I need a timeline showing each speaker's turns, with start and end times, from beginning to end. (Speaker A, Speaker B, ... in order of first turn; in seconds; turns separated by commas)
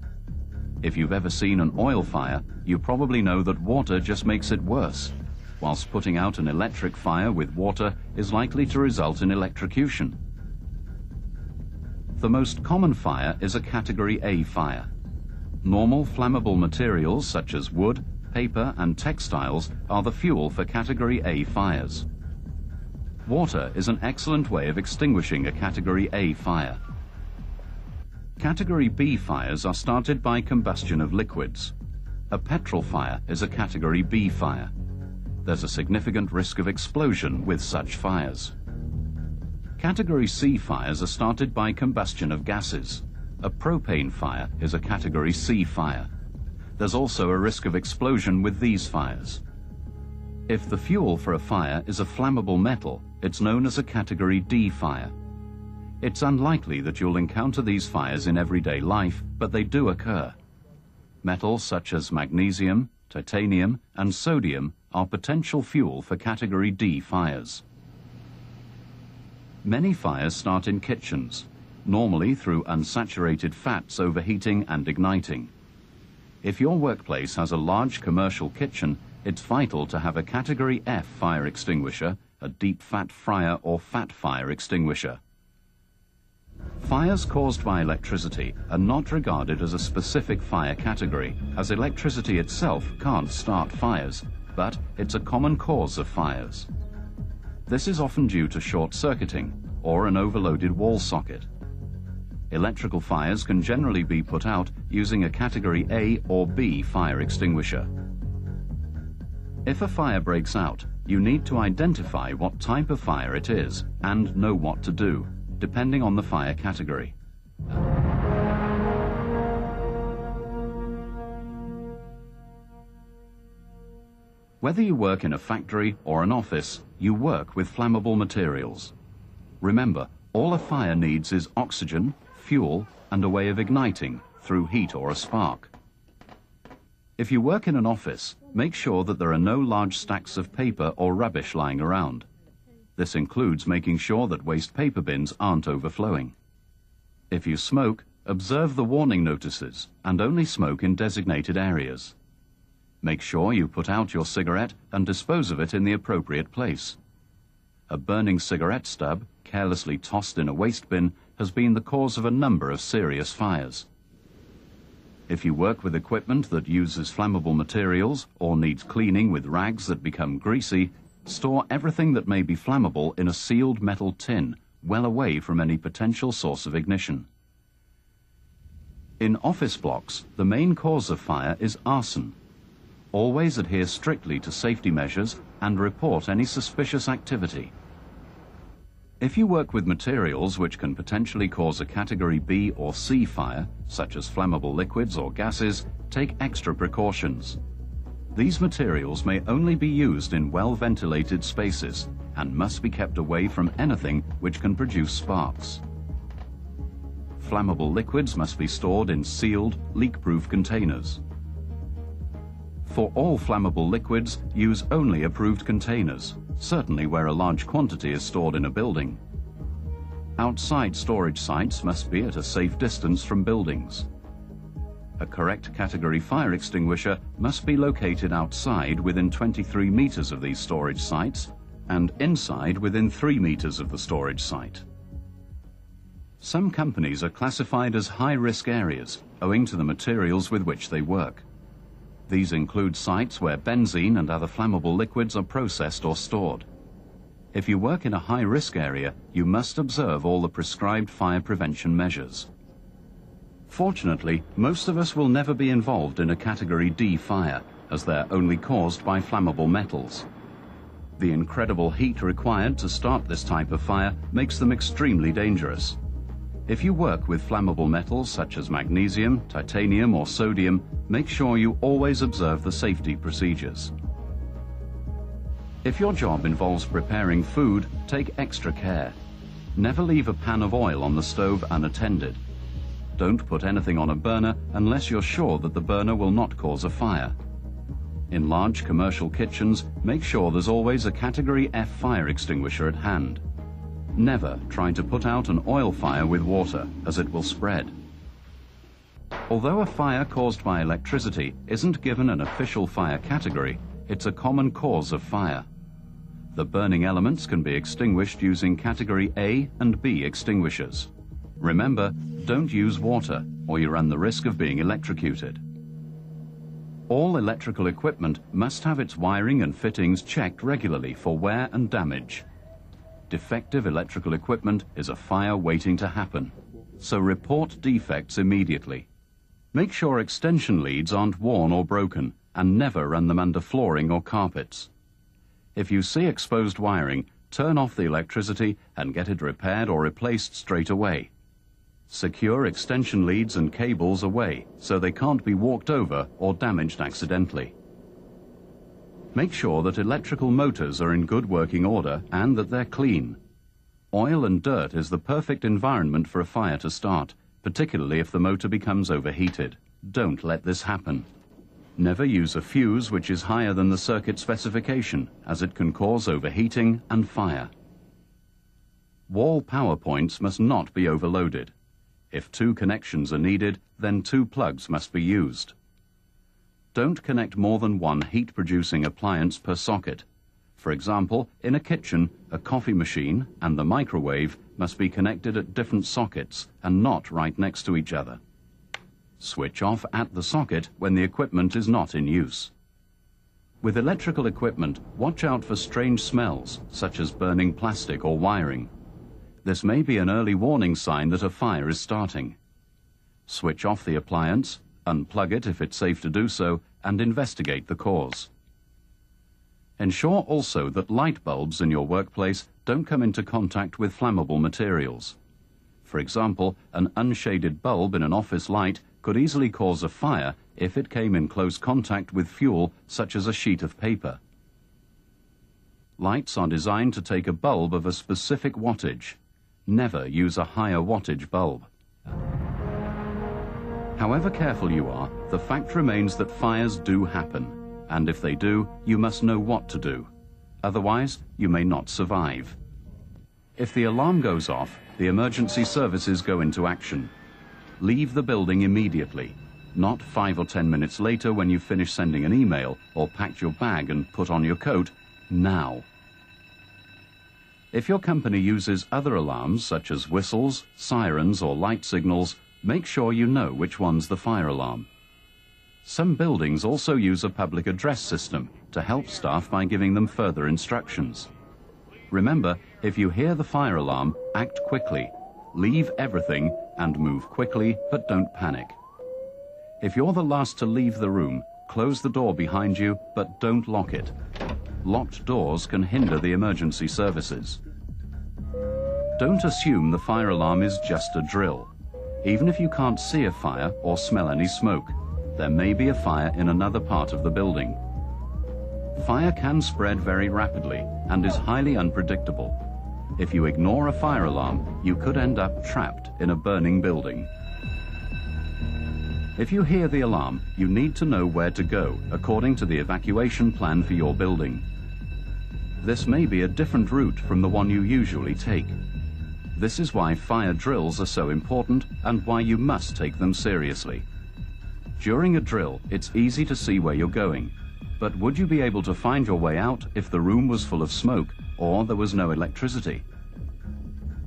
Speaker A: 0.8-10.2, Speaker A: 12.2-14.9, Speaker A: 15.6-22.1, Speaker A: 23.2-26.8, Speaker A: 28.4-31.7, Speaker A: 32.3-34.7, Speaker A: 35.4-38.5, Speaker A: 39.8-46.1, Speaker A: 46.8-49.4, Speaker A: 50.5-55.1, Speaker A: 56.0-60.3, Speaker A: 61.2-67.6, Speaker A: 69.6-75.5, Speaker A: 76.4-85.2, Speaker A: 86.8-96.7, Speaker A: 97.7-101.5, Speaker A: 102.5-107.9, Speaker A: 109.6-117.1, Speaker A: 124.6-128.9, Speaker A: 129.6-135.7, Speaker A: 137.2-142.3, Speaker A: 143.0-146.3, Speaker A: 147.3-152.1, Speaker A: 153.0-157.0, Speaker A: 157.9-163.9, Speaker A: 165.3-177.3, Speaker A: 179.2-182.3, Speaker A: 183.1-187.7, Speaker A: 189.2-197.6, Speaker A: 198.3-205.8, Speaker A: 207.4-211.2, Speaker A: 212.8-219.2, Speaker A: 220.4-224.1, Speaker A: 225.2-234.8, Speaker A: 236.4-241.4, Speaker A: 242.3-246.7, Speaker A: 247.5-252.5, Speaker A: 253.7-260.3, Speaker A: 261.2-266.0, Speaker A: 266.7-273.9, Speaker A: 275.8-279.1, Speaker A: 279.7-282.4, Speaker A: 283.2-287.4, Speaker A: 288.3-293.4, Speaker A: 294.1-297.9, Speaker A: 299.5-305.6, Speaker A: 306.5-315.6, Speaker A: 317.1-322.4, Speaker A: 323.3-329.1, Speaker A: 329.7-334.9, Speaker A: 335.7-341.3, Speaker A: 342.1-347.7, Speaker A: 349.3-353.4, Speaker A: 354.1-361.3, Speaker A: 362.0-367.7, Speaker A: 369.3-371.7, Speaker A: 372.3-375.7, Speaker A: 376.9-380.2, Speaker A: 380.8-388.4, Speaker A: 389.4-392.7, Speaker A: 393.8-398.9, Speaker A: 399.6-402.6, Speaker A: 403.5-408.5, Speaker A: 410.0-415.4, Speaker A: 416.0-424.4, Speaker A: 426.2-431.9, Speaker A: 434.1-440.3, Speaker A: 440.8-442.8, Speaker A: 443.8-447.3, Speaker A: 448.0-456.1, Speaker A: 457.9-465.1, Speaker A: 466.0-471.5, Speaker A: 472.3-479.0, Speaker A: 480.0-484.3, Speaker A: 485.0-487.8, Speaker A: 489.4-491.9, Speaker A: 492.4-498.0, Speaker A: 499.1-502.8, Speaker A: 503.4-507.5, Speaker A: 509.6-514.8, Speaker A: 516.0-519.0, Speaker A: 519.7-524.2, Speaker A: 525.2-533.2